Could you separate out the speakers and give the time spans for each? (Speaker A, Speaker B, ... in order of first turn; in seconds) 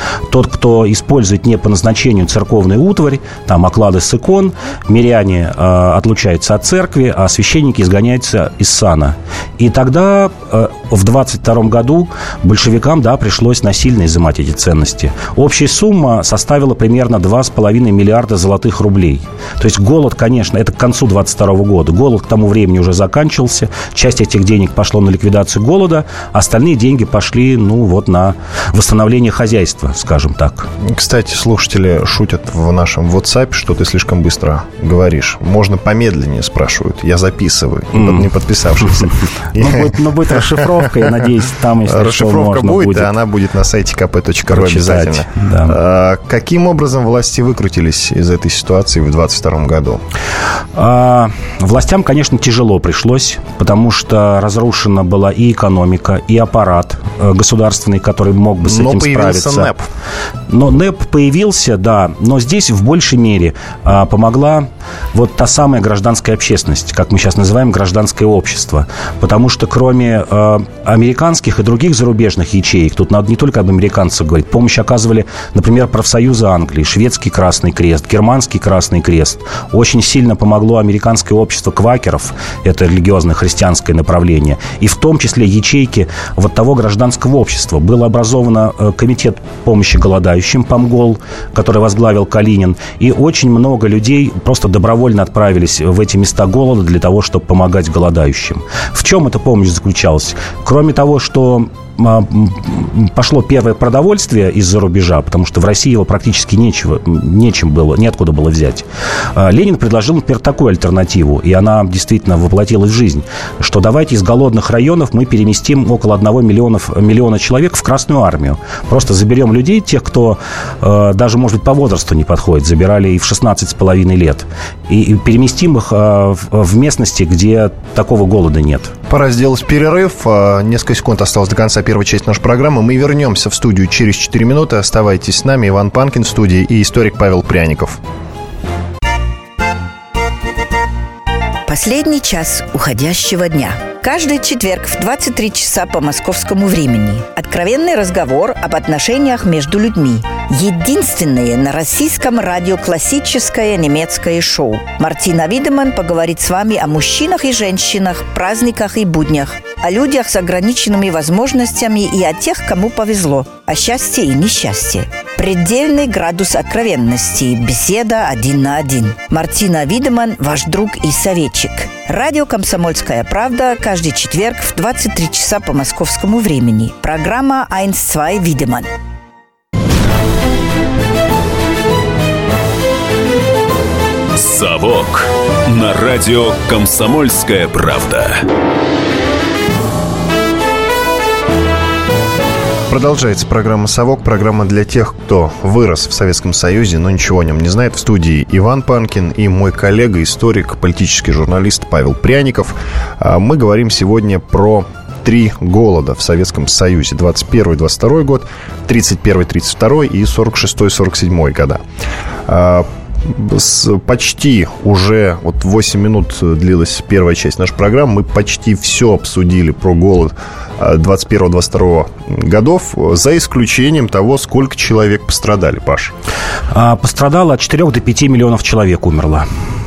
Speaker A: 0.3-30.7, 37.9-38.3, 38.9-43.1, 44.5-45.8, 50.8-59.7, 60.5-128.9, 226.7-229.5
Speaker B: 30.8-41.1, 41.9-50.0, 58.6-59.9, 129.1-138.0, 192.9-211.8, 212.5-226.1
Speaker C: 141.7-178.9
Speaker D: 184.4-188.4